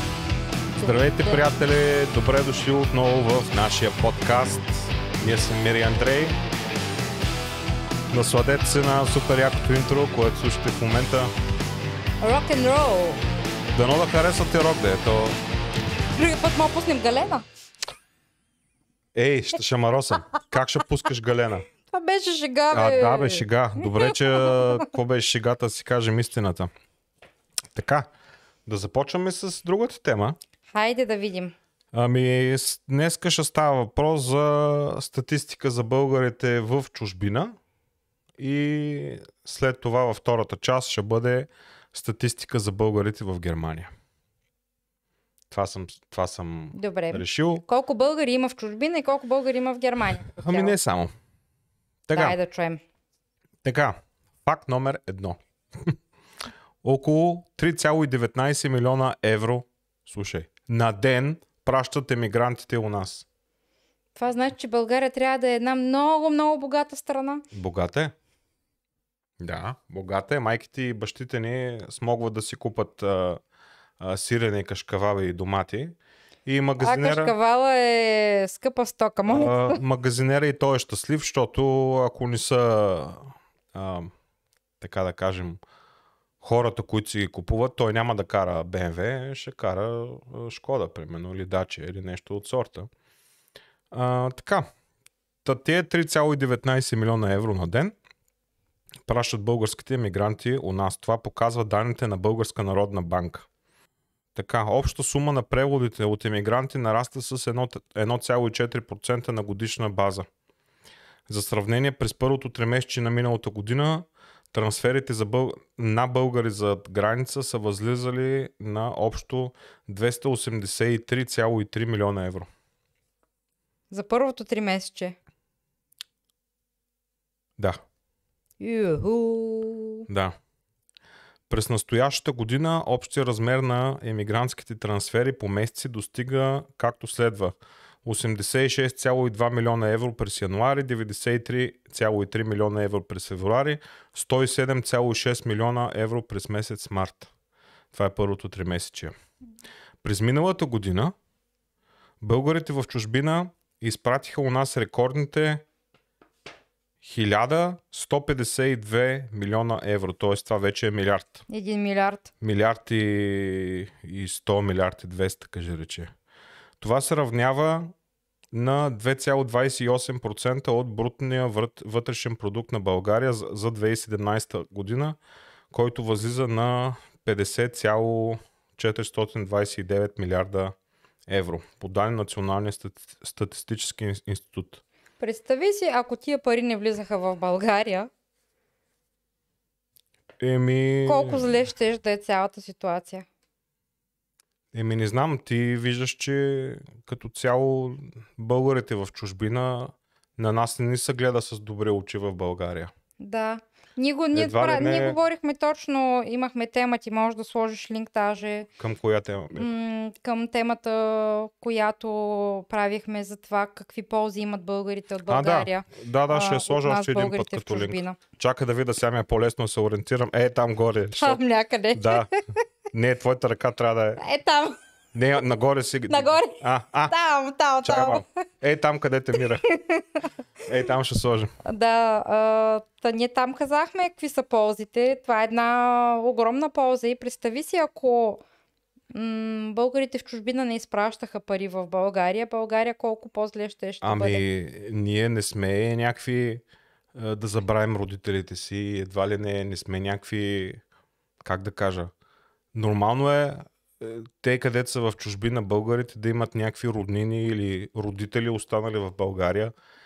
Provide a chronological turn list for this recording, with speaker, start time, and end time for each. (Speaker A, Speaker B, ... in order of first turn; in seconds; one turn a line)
Speaker A: 0.8-1.4
Speaker B: 0.8-6.4
Speaker B: 8.1-11.3
Speaker A: 12.2-13.2
Speaker B: 13.8-15.4
Speaker A: 16.1-17.5
Speaker B: 19.1-21.7
Speaker A: 21.9-24.7
Speaker B: 22.7-26.7
Speaker B: 27.8-28.1
Speaker B: 28.7-30.4
Speaker A: 30.7-31.6
Speaker B: 31.9-37.5
Speaker B: 38.4-43.9
Speaker B: 45.5-47.6
Speaker A: 46.7-50.7
Speaker B: 50.4-51.1
Speaker B: 52.1-52.4
Speaker A: 52.1-52.8
Speaker B: 53.6-56.0
Speaker B: 56.8-63.3
Speaker A: 64.2-67.5
Speaker B: 67.5-68.1
Speaker B: 69.4-73.4
Speaker B: 74.0-77.3
Speaker A: 76.8-79.8
Speaker B: 79.3-84.1
Speaker B: 84.8-85.6
Speaker B: 86.4-92.9
Speaker B: 93.9-94.7
Speaker B: 95.4-98.0
Speaker B: 99.1-103.5
Speaker B: 104.3-110.3
Speaker B: 111.3-122.5
Speaker A: 123.9-125.2
Speaker A: 128.6-130.1
Speaker B: 130.1-130.4
Speaker B: 131.5-147.3
Speaker B: 147.9-149.1
Speaker B: 150.0-151.1
Speaker B: 152.2-155.7
Speaker B: 157.0-161.4
Speaker A: 161.5-162.3
Speaker B: 162.4-166.1
Speaker B: 166.8-167.9
Speaker B: 168.5-175.2
Speaker B: 175.7-180.7
Speaker B: 181.3-184.8
Speaker A: 185.2-188.1
Speaker B: 190.4-191.6
Speaker A: 191.1-193.3
Speaker B: 194.7-202.9
Speaker A: 203.2-208.7
Speaker B: 204.3-205.2
Speaker B: 208.8-209.7
Speaker A: 209.5-218.2
Speaker B: 215.3-221.4
Speaker A: 221.2-222.3
Speaker B: 221.9-222.3
Speaker B: 222.9-224.2
Speaker A: 224.2-224.8
Speaker B: 225.1-227.2
Speaker A: 226.1-228.2
Speaker B: 227.8-229.7
Speaker A: 229.3-230.2
Speaker B: 230.6-231.5
Speaker A: 231.7-238.4
Speaker A: 239.1-244.4
Speaker B: 244.0-246.6
Speaker B: 247.1-250.8
Speaker B: 251.4-252.1
Speaker B: 252.7-259.7